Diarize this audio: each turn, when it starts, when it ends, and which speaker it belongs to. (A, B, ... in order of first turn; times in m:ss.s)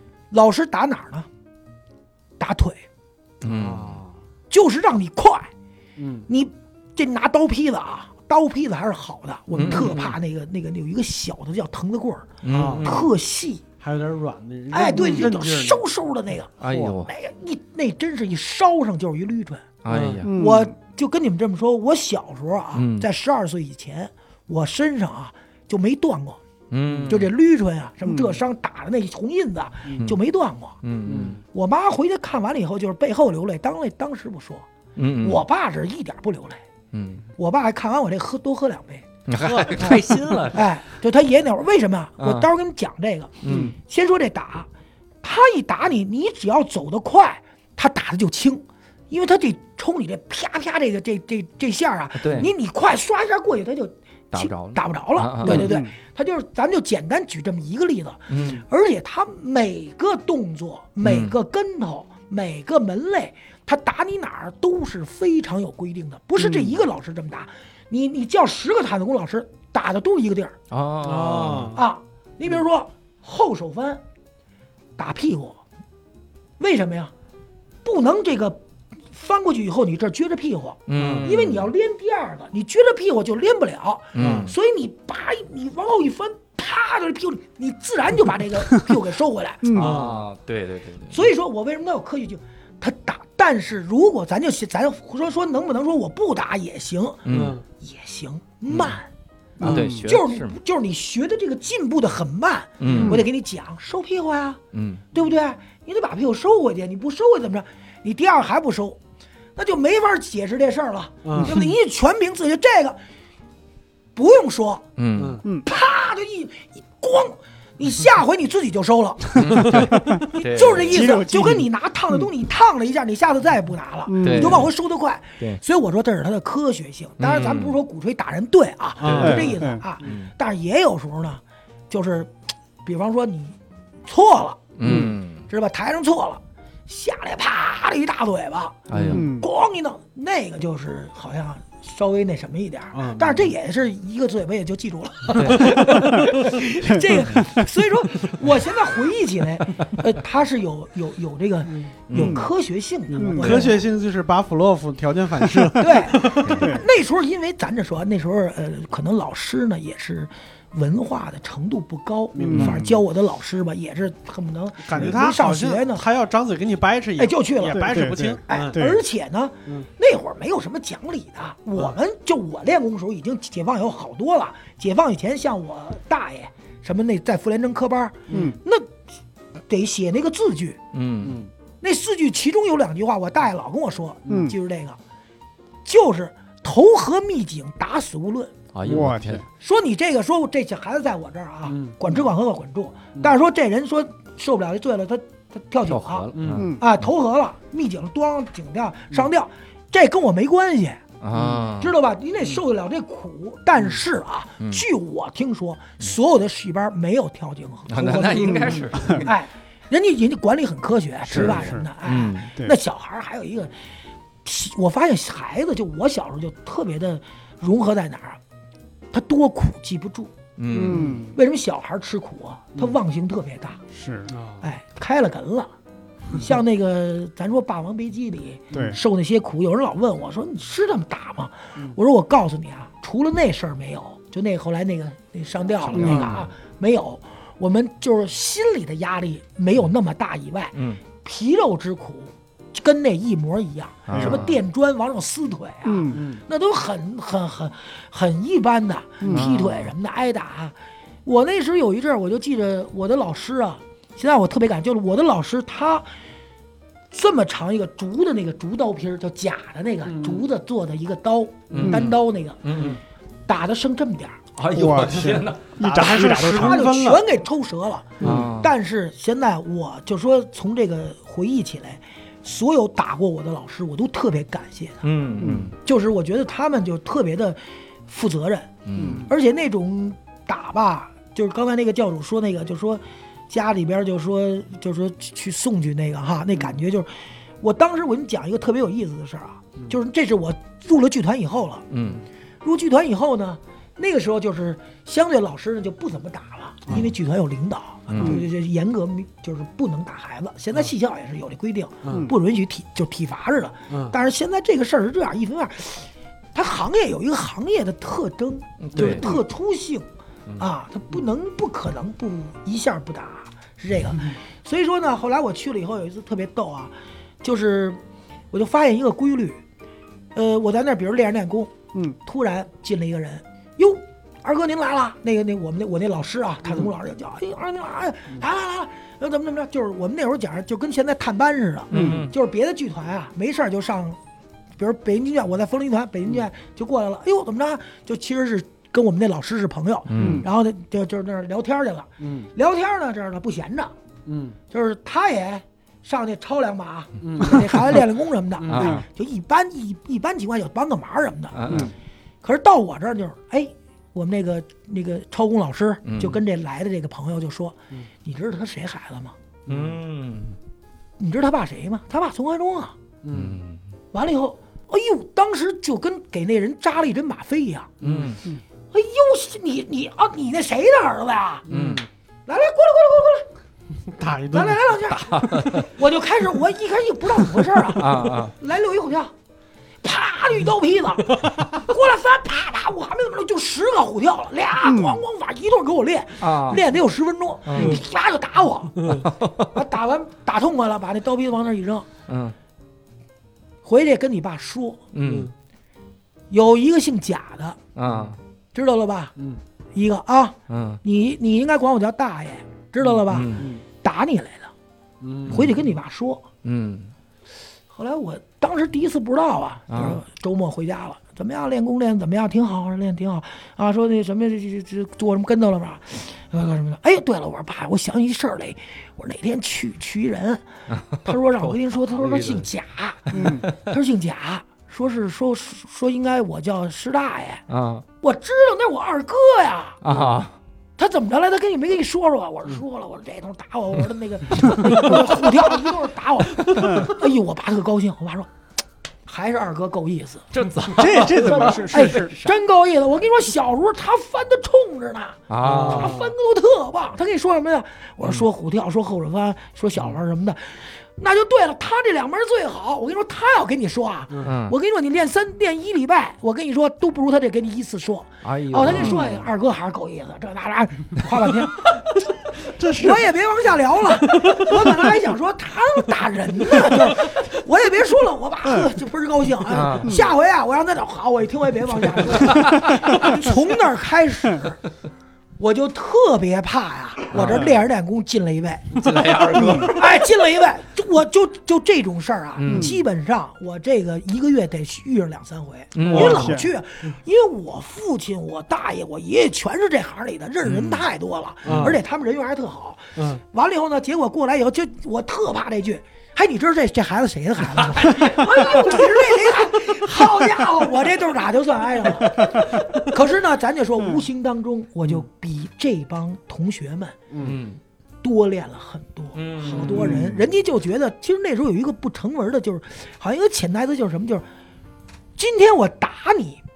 0:00.3-0:01.3 A
0:02.4-0:02.8 A
0:03.4-0:04.0 B
0:03.4-0:04.1 C
0:04.5-0:05.5 A
0:06.0-0:06.3 C
0:06.3-0:13.6 A
0:09.5-0:10.0 B
0:09.6-0:10.2 C
0:12.4-0:13.1 B
0:12.5-0:13.0 C
0:13.8-0:15.9 C
0:14.7-0:19.7 A
0:16.6-0:17.1 B
0:16.7-0:16.9 C
0:19.8-0:20.3 B
0:19.9-0:20.2 C
0:20.2-0:20.7 D
0:20.2-0:26.4 A
0:22.7-0:23.1 B
0:26.7-0:27.3 B
0:26.9-0:27.2 C
0:27.1-0:30.8 A
0:28.0-0:28.4 D
0:30.8-0:31.4 B
0:31.0-0:31.4 C
0:31.4-0:34.6 A
0:35.0-0:35.4 B
0:35.2-0:36.6 A
0:36.9-0:37.2 B
0:37.4-0:39.1 A
0:39.3-0:40.7 B
0:39.4-0:40.1 C
0:39.8-0:44.7 A
0:42.2-0:42.5 B
0:43.4-0:43.7 B
0:43.4-0:43.7 C
0:45.2-1:10.6 A
0:52.1-0:52.5 B
0:54.3-0:55.7 B
0:55.4-0:55.9 D
0:58.3-0:58.6 B
1:01.0-1:01.3 B
1:10.7-1:11.8 B
1:11.0-1:11.8 C
1:11.7-1:14.0 A
1:15.0-1:15.6 A
1:16.6-1:17.1 A
1:17.8-1:29.7 A
1:20.9-1:21.7 B
1:20.9-1:21.3 C
1:24.1-1:24.5 B
1:24.2-1:24.5 C
1:29.6-1:29.9 D
1:29.7-1:31.3 B
1:29.7-1:30.2 C
1:31.1-1:37.2 A
1:37.2-1:37.6 B
1:37.3-1:37.6 C
1:37.8-1:39.1 A
1:38.7-1:39.0 B
1:39.6-1:40.0 D
1:39.6-1:40.6 B
1:39.7-1:44.6 A
1:42.8-1:43.2 B
1:42.8-1:43.2 C
1:42.9-1:43.2 D
1:44.7-1:45.0 B
1:45.1-1:49.0 A
1:49.6-1:53.0 A
1:51.2-1:51.7 C
1:54.1-1:54.8 A
1:55.0-1:55.4 B
1:55.2-1:55.4 C
1:55.6-2:12.3 A
1:59.4-2:01.1 B
2:00.9-2:01.7 D
2:04.0-2:04.6 D
2:04.2-2:04.7 B
2:07.2-2:07.8 B
2:09.0-2:09.5 C
2:09.0-2:10.3 B
2:09.2-2:09.8 D
2:12.8-2:14.8 A
2:14.8-2:15.5 B
2:14.8-2:15.1 C
2:15.5-2:33.8 A
2:18.9-2:19.3 B
2:19.1-2:19.5 D
2:22.9-2:23.5 C
2:25.3-2:26.2 B
2:26.9-2:27.6 D
2:31.7-2:31.9 C
2:32.1-2:32.5 B
2:32.1-2:32.5 D
2:33.1-2:36.6 C
2:33.2-2:33.7 D
2:35.8-2:46.0 A
2:36.4-2:36.7 B
2:36.5-2:36.9 D
2:42.3-2:42.8 C
2:42.4-2:43.0 D
2:44.8-2:48.8 C
2:47.2-2:58.9 A
2:47.8-2:49.0 D
2:58.3-2:58.6 C
2:58.3-2:58.6 D
2:59.7-3:00.8 A
3:00.9-3:01.4 B
3:01.2-3:01.5 C
3:01.8-3:05.0 A
3:04.3-3:04.6 D
3:05.8-3:08.5 A
3:08.7-3:09.4 B
3:08.8-3:09.4 D
3:09.6-3:21.0 A
3:11.7-3:12.2 C
3:15.8-3:17.1 B
3:16.3-3:16.7 C
3:16.5-3:16.8 D
3:21.2-3:21.9 B
3:21.3-3:21.6 C
3:21.8-3:33.7 A
3:24.6-3:24.8 B
3:27.9-3:29.3 B
3:28.5-3:29.3 D
3:31.3-3:32.6 B
3:31.3-3:31.8 D
3:34.4-3:38.4 A
3:39.1-3:40.3 A
3:40.6-3:41.2 B
3:40.7-3:41.4 D
3:40.9-3:43.8 A
3:43.9-3:44.3 D
3:44.3-3:44.6 C
3:44.6-3:45.7 A
3:46.3-4:16.1 A
3:48.7-3:49.0 D
3:55.9-3:56.4 D
3:55.9-3:56.4 C
4:00.7-4:01.0 B
4:04.1-4:04.6 B
4:04.1-4:04.4 D
4:05.8-4:06.2 D
4:06.1-4:06.4 C
4:09.2-4:09.4 D
4:09.3-4:09.9 B
4:17.1-4:22.6 A
4:20.1-4:20.4 C
4:21.7-4:23.0 B
4:23.5-4:24.4 A
4:24.5-4:25.7 B
4:24.7-4:26.9 D
4:25.8-4:27.2 C
4:26.3-4:35.0 A
4:28.2-4:28.7 B
4:28.2-4:28.5 D
4:35.0-4:35.8 B
4:35.4-4:35.7 D
4:35.8-4:51.8 A
4:38.8-4:39.2 B
4:39.0-4:39.3 D
4:51.9-4:52.2 B
4:52.6-5:18.0 A
4:58.1-4:58.4 B
4:58.2-4:58.4 D
5:02.0-5:02.3 C
5:08.8-5:09.2 B
5:09.0-5:09.3 C
5:18.5-5:19.6 A
5:20.3-5:34.2 A
5:31.9-5:32.3 B
5:31.9-5:32.3 D
5:34.8-5:43.9 A
5:40.1-5:40.5 B
5:40.2-5:40.5 D
5:42.2-5:42.5 C
5:44.2-5:44.6 C
5:44.7-5:51.8 A
5:47.2-5:48.0 C
5:48.6-5:48.9 C
5:48.6-5:49.0 B
5:48.8-5:49.0 D
5:51.5-5:51.9 B
5:51.7-5:51.9 D
5:52.4-5:59.4 A
5:56.0-5:56.4 B
5:59.7-6:00.0 C
5:59.7-6:00.6 B
6:01.2-6:02.9 A
6:03.2-6:03.6 C
6:03.3-6:03.8 B
6:04.1-6:07.9 A
6:08.0-6:08.4 B
6:08.0-6:08.4 C
6:08.9-6:11.6 A
6:11.7-6:12.0 C
6:11.7-6:12.0 B
6:12.5-6:13.5 A
6:14.0-6:15.0 C
6:14.5-6:19.3 A
6:15.1-6:15.9 B
6:17.9-6:18.5 B
6:20.0-6:32.1 A
6:24.8-6:25.2 D
6:26.4-6:26.8 B
6:27.6-6:28.0 B
6:29.0-6:29.7 B
6:32.3-6:32.6 B
6:33.8-6:35.0 A
6:35.1-6:35.5 B
6:35.2-6:35.5 C
6:36.5-6:37.8 A
6:38.0-6:38.4 B
6:38.7-6:39.3 A
6:39.9-6:44.7 A
6:40.7-6:41.0 B
6:43.1-6:43.8 C
6:43.3-6:43.7 B
6:45.2-6:45.8 C
6:45.4-6:45.7 B
6:45.5-6:46.5 A
6:46.6-6:47.1 B
6:47.9-7:00.6 A
6:49.9-6:50.2 B
7:00.9-7:02.7 B
7:01.2-7:07.6 A
7:03.3-7:03.7 D
7:07.7-7:08.0 B
7:08.2-7:10.0 A
7:10.0-7:10.6 B
7:11.0-7:18.5 A
7:16.8-7:17.2 D
7:19.3-7:20.5 A
7:20.5-7:22.6 B
7:21.0-7:22.3 D
7:21.1-7:42.0 A
7:25.5-7:26.2 B
7:25.6-7:26.3 C
7:34.4-7:34.7 B
7:38.4-7:39.4 B
7:39.0-7:39.3 C
7:42.6-7:43.3 C
7:42.9-7:54.8 A
7:44.2-7:45.1 C
7:49.7-7:50.2 B
7:52.3-7:53.2 B
7:55.6-8:27.2 A
7:57.3-7:57.7 B
7:57.5-7:57.8 D
7:58.9-8:00.1 B
8:02.6-8:03.0 B
8:02.6-8:03.0 D
8:05.9-8:06.6 B
8:06.0-8:06.5 C
8:06.1-8:06.7 D
8:10.6-8:11.1 B
8:11.6-8:12.0 C
8:13.2-8:13.4 C
8:27.3-8:27.6 C
8:27.4-8:27.8 B
8:28.2-8:34.4 A
8:29.3-8:30.3 B
8:29.7-8:30.5 C
8:35.4-8:36.6 A